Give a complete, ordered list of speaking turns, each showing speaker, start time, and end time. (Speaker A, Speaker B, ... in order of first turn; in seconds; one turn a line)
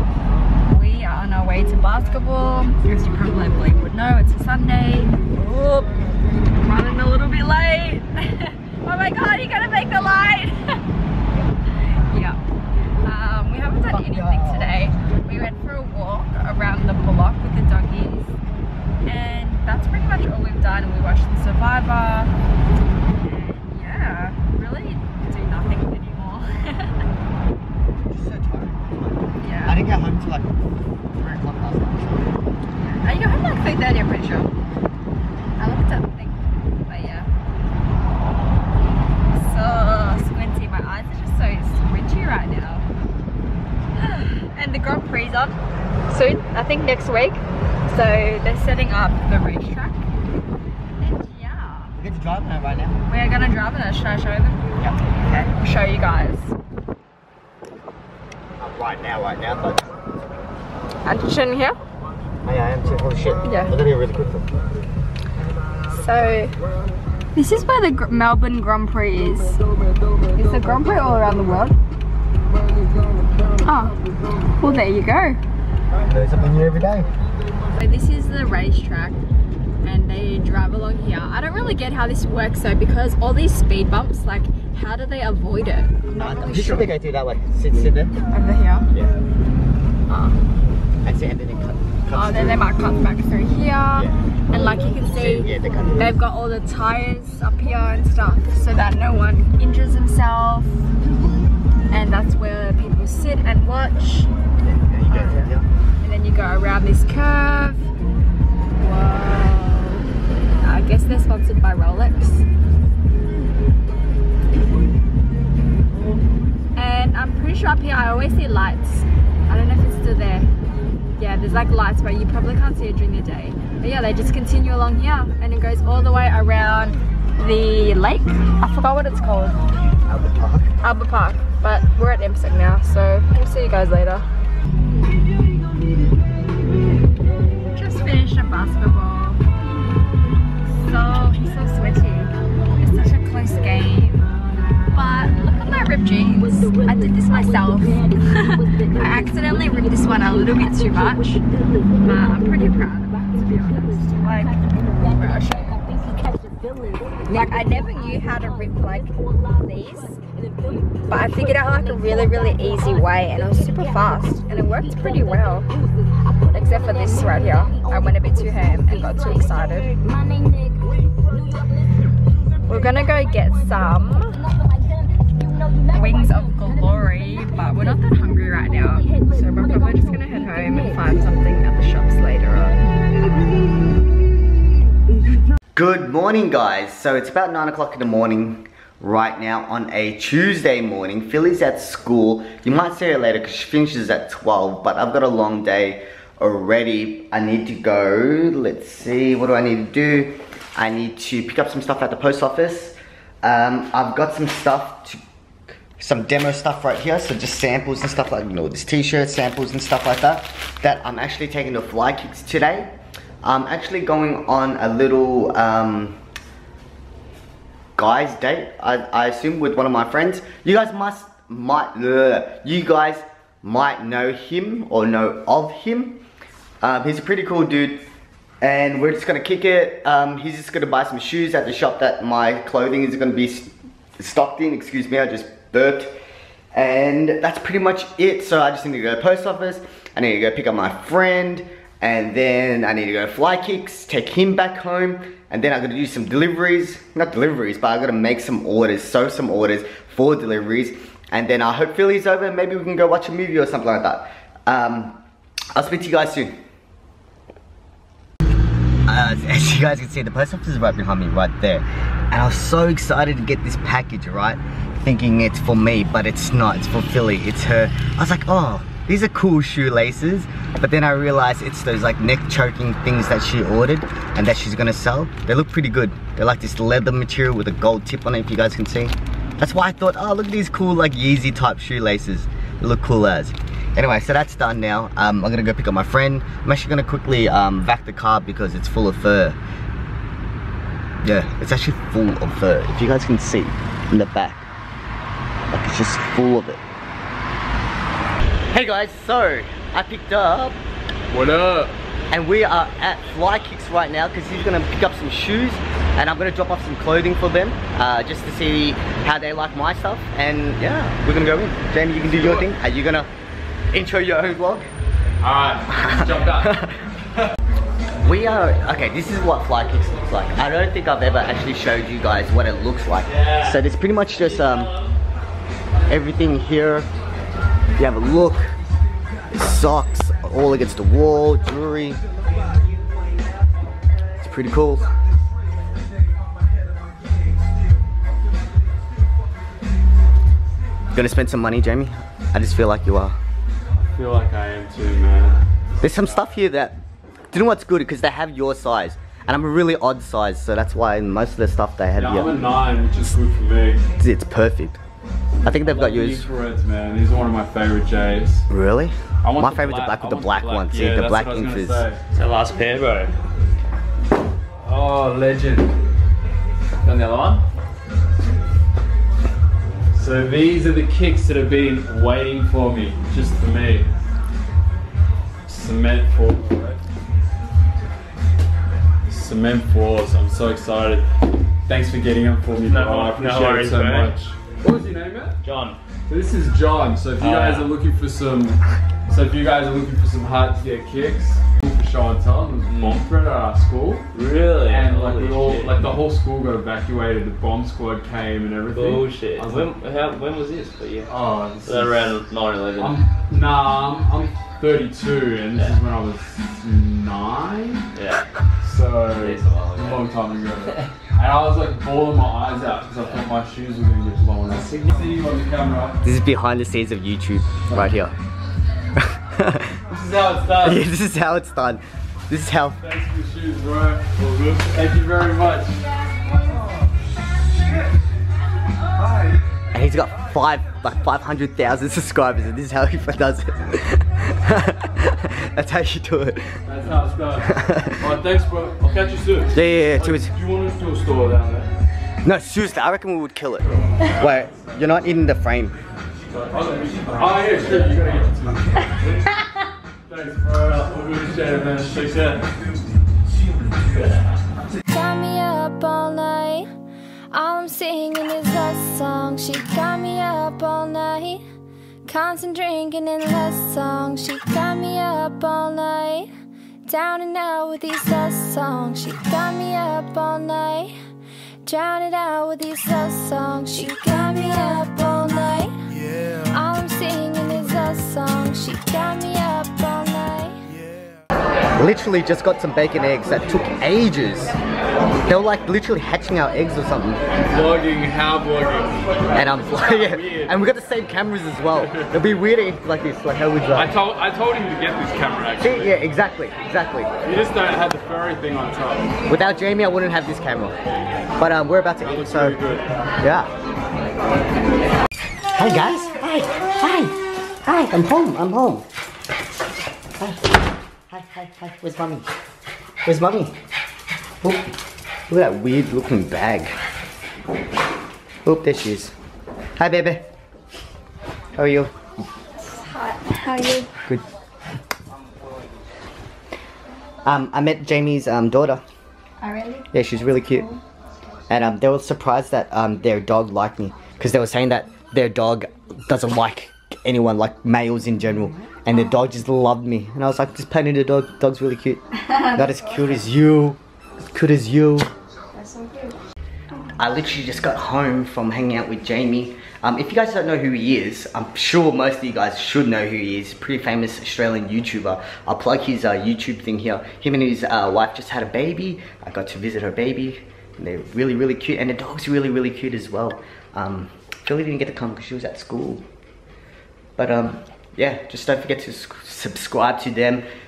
Speaker A: 0.7-5.9
Speaker A: 6.6-10.8
Speaker A: 12.0-12.4
Speaker A: 13.0-18.4
Speaker B: 13.9-14.7
Speaker A: 19.0-22.3
Speaker A: 23.1-26.9
Speaker B: 28.1-30.6
Speaker A: 29.4-29.8
Speaker B: 31.1-32.3
Speaker A: 32.8-34.5
Speaker A: 35.6-37.3
Speaker A: 39.3-42.9
Speaker A: 43.9-45.6
Speaker A: 46.1-50.0
Speaker A: 51.0-51.9
Speaker B: 51.9-53.0
Speaker A: 53.0-54.7
Speaker A: 55.2-56.5
Speaker B: 58.6-60.0
Speaker A: 61.0-61.8
Speaker B: 62.4-64.5
Speaker A: 63.4-63.7
Speaker A: 65.9-66.5
Speaker A: 67.3-69.6
Speaker A: 70.3-71.8
Speaker A: 73.6-74.0
Speaker A: 74.6-75.4
Speaker B: 76.0-77.1
Speaker A: 77.7-79.2
Speaker A: 79.8-86.9
Speaker B: 86.2-88.1
Speaker A: 88.3-88.9
Speaker A: 90.1-90.4
Speaker B: 91.0-92.7
Speaker A: 92.1-100.8
Speaker B: 95.1-96.1
Speaker A: 101.9-104.3
Speaker B: 104.9-105.7
Speaker A: 105.1-107.9
Speaker A: 108.8-110.1
Speaker A: 110.6-112.4
Speaker A: 116.7-120.5
Speaker A: 121.2-129.6
Speaker B: 130.1-130.8
Speaker A: 130.8-134.2
Speaker A: 137.7-139.4
Speaker A: 140.8-144.2
Speaker A: 144.9-151.4
Speaker A: 152.0-155.8
Speaker A: 157.2-160.2
Speaker A: 161.1-165.7
Speaker A: 166.5-170.0
Speaker A: 172.7-174.5
Speaker A: 175.9-182.8
Speaker B: 185.8-205.2
Speaker B: 206.0-212.9
Speaker B: 213.4-216.2
Speaker B: 217.9-226.2
Speaker B: 226.8-228.0
Speaker B: 228.6-236.1
Speaker B: 236.7-255.2
Speaker B: 255.7-256.6
Speaker B: 259.1-289.6
Speaker B: 291.2-294.7
Speaker B: 295.7-296.8
Speaker B: 298.7-300.8
Speaker C: 301.3-301.9
Speaker B: 302.3-313.3
Speaker B: 313.9-314.9
Speaker C: 315.4-316.7
Speaker B: 315.9-317.0
Speaker B: 318.2-324.9
Speaker D: 323.3-323.8
Speaker D: 324.4-325.1
Speaker B: 326.1-327.1
Speaker B: 328.0-328.7
Speaker B: 329.5-332.2
Speaker B: 334.4-335.1
Speaker B: 341.1-343.4
Speaker C: 344.1-345.6
Speaker B: 346.0-347.0
Speaker B: 347.5-352.5
Speaker C: 352.2-354.1
Speaker B: 354.2-355.0
Speaker B: 355.6-356.4
Speaker C: 355.7-358.7
Speaker B: 358.7-362.0
Speaker C: 359.4-362.2
Speaker D: 362.3-363.3
Speaker C: 364.8-365.9
Speaker D: 367.0-367.6
Speaker C: 367.1-367.6
Speaker C: 370.1-374.1
Speaker C: 375.6-377.0
Speaker C: 379.3-381.2
Speaker C: 381.9-385.6
Speaker D: 382.8-384.4
Speaker D: 385.6-386.0
Speaker C: 386.2-394.3
Speaker D: 387.4-388.0
Speaker D: 392.9-393.3
Speaker D: 394.3-396.1
Speaker C: 394.9-399.9
Speaker D: 398.9-401.3
Speaker C: 401.3-402.3
Speaker D: 401.8-403.3
Speaker C: 403.0-408.0
Speaker D: 408.1-408.4
Speaker C: 408.8-416.2
Speaker D: 409.2-410.3
Speaker D: 414.8-415.1
Speaker B: 416.2-418.4
Speaker C: 417.8-418.1
Speaker B: 419.2-419.9
Speaker C: 420.1-421.0
Speaker B: 420.8-423.0
Speaker C: 423.0-424.2
Speaker D: 424.4-424.8
Speaker C: 424.9-426.0
Speaker B: 429.9-436.7
Speaker C: 436.9-441.8
Speaker B: 437.6-438.2
Speaker B: 439.7-440.5
Speaker B: 442.4-446.0
Speaker C: 446.5-449.0
Speaker C: 450.3-452.6
Speaker E: 455.1-456.9
Speaker E: 457.5-461.6
Speaker E: 462.2-466.5
Speaker E: 467.1-471.1
Speaker E: 471.8-475.9
Speaker E: 476.7-480.8
Speaker B: 482.0-484.7
Speaker B: 485.4-487.4
Speaker C: 487.7-490.8
Speaker B: 489.5-494.1
Speaker C: 493.9-496.1
Speaker B: 495.8-497.3
Speaker C: 497.4-499.4
Speaker B: 499.5-500.9
Speaker B: 501.6-502.8
Speaker C: 502.2-503.1
Speaker B: 503.4-503.7
Speaker B: 505.7-509.1
Speaker B: 510.4-510.7
Speaker B: 511.3-512.5
Speaker B: 513.2-513.7
Speaker B: 515.5-516.9
Speaker B: 518.6-519.3
Speaker B: 520.0-520.4
Speaker B: 521.7-522.1
Speaker A: 523.0-524.1
Speaker B: 527.4-529.0
Speaker A: 529.6-530.0
Speaker B: 530.1-530.9
Speaker B: 531.7-545.3
Speaker A: 545.8-546.3
Speaker B: 547.1-566.2
Speaker B: 567.4-570.6